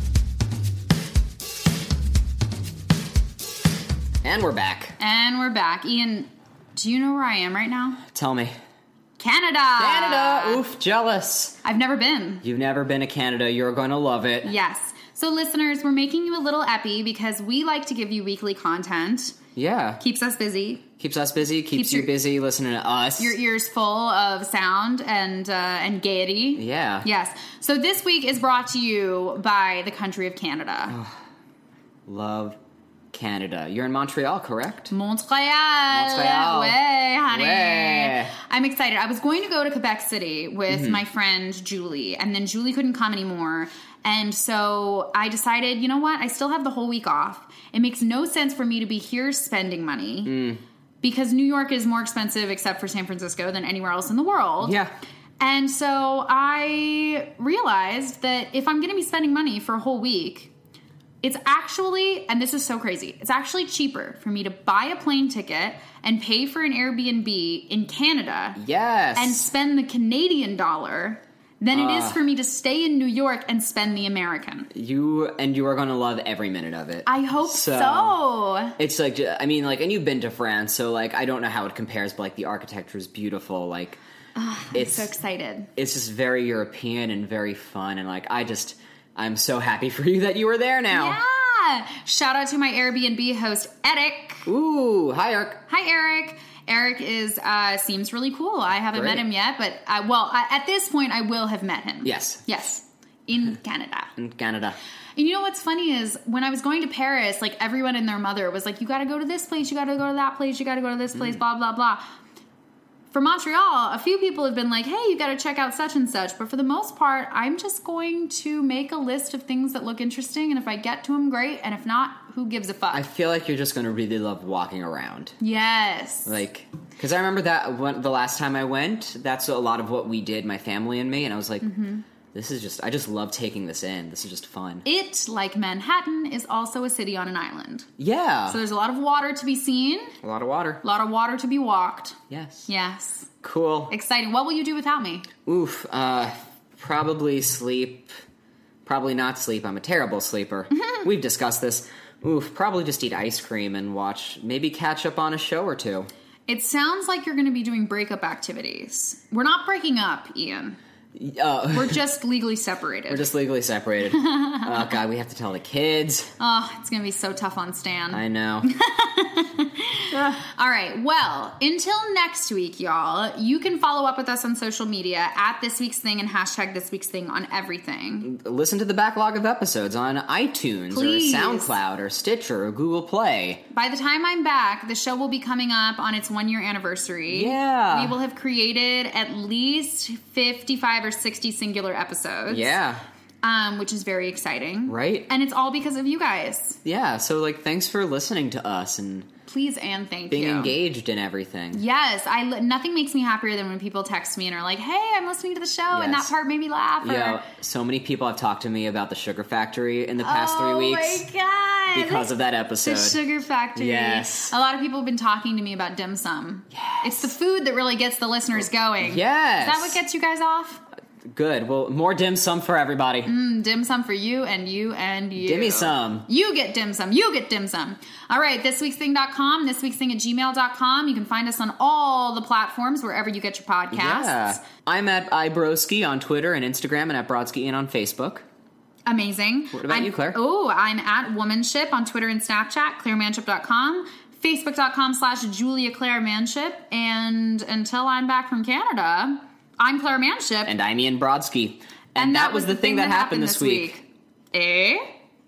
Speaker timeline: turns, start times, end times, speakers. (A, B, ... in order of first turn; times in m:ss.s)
0:04.2-0:05.0 A
0:05.0-0:08.0 B
0:08.1-0:08.5 A
0:09.2-0:10.6 B
0:09.8-0:11.6 A
0:11.6-0:12.4 B
0:12.4-0:14.5 A
0:14.4-0:19.4 B
0:19.5-0:20.0 A
0:20.0-0:20.9 B
0:21.0-0:23.4 A
0:21.7-0:22.1 B
0:23.2-0:31.0 B
0:26.6-0:27.1 A
0:30.9-0:31.2 A
0:32.1-0:32.6 A
0:33.1-0:34.9 A
0:34.9-0:50.3 B
0:35.9-0:36.8 A
0:37.3-0:38.3 A
0:40.7-0:41.0 A
0:50.2-0:50.6 A
0:51.0-0:54.8 B
0:54.6-0:54.9 A
0:55.4-1:00.5 B
1:01.2-1:08.6 B
1:08.6-1:09.5 A
1:09.1-1:14.7 B
1:11.7-1:12.2 A
1:14.7-1:18.2 A
1:17.0-1:18.8 B
1:18.8-1:24.0 A
1:24.4-1:25.7 B
1:24.7-1:25.1 A
1:25.8-1:31.2 A
1:30.9-1:34.5 B
1:34.5-1:35.6 A
1:35.7-1:44.1 B
1:38.9-1:39.2 A
1:42.0-1:42.5 A
1:44.2-1:44.8 A
1:45.2-1:52.0 B
1:53.1-2:03.0 B
2:02.9-2:05.4 A
2:05.4-2:06.4 B
2:06.2-2:11.7 A
2:11.6-2:12.0 B
2:12.3-2:14.8 A
2:14.8-2:17.9 B
2:18.0-2:18.6 A
2:18.5-2:20.2 B
2:20.2-2:20.8 A
2:20.8-2:22.2 B
2:22.3-2:22.7 A
2:22.7-2:23.3 B
2:23.4-2:23.9 A
2:23.9-2:25.3 B
2:25.4-2:28.1 A
2:28.8-2:36.1 A
2:36.5-2:40.8 B
2:41.1-2:42.0 A
2:41.7-2:43.2 B
2:43.1-2:46.3 A
2:44.1-2:44.9 B
2:46.4-2:58.3 B
2:48.1-2:48.7 A
2:50.1-2:50.4 A
2:58.2-3:03.6 A
3:00.9-3:01.8 B
3:03.7-3:12.8 B
3:07.3-3:08.2 A
3:12.5-3:13.0 A
3:13.4-3:16.8 B
3:14.9-3:15.3 A
3:16.8-3:19.3 A
3:19.5-3:20.7 B
3:20.3-3:21.8 A
3:21.7-3:27.4 B
3:25.9-3:26.3 A
3:27.0-3:31.2 A
3:30.2-3:40.8 B
3:31.9-3:33.2 A
3:33.8-3:34.5 A
3:36.7-3:37.3 A
3:39.0-3:40.0 A
3:41.3-3:43.3 A
3:43.2-3:54.6 B
3:45.4-3:46.3 A
3:53.9-3:58.4 A
3:59.1-4:10.7 B
3:59.7-4:00.4 A
4:10.6-4:13.9 A
4:12.2-4:15.1 B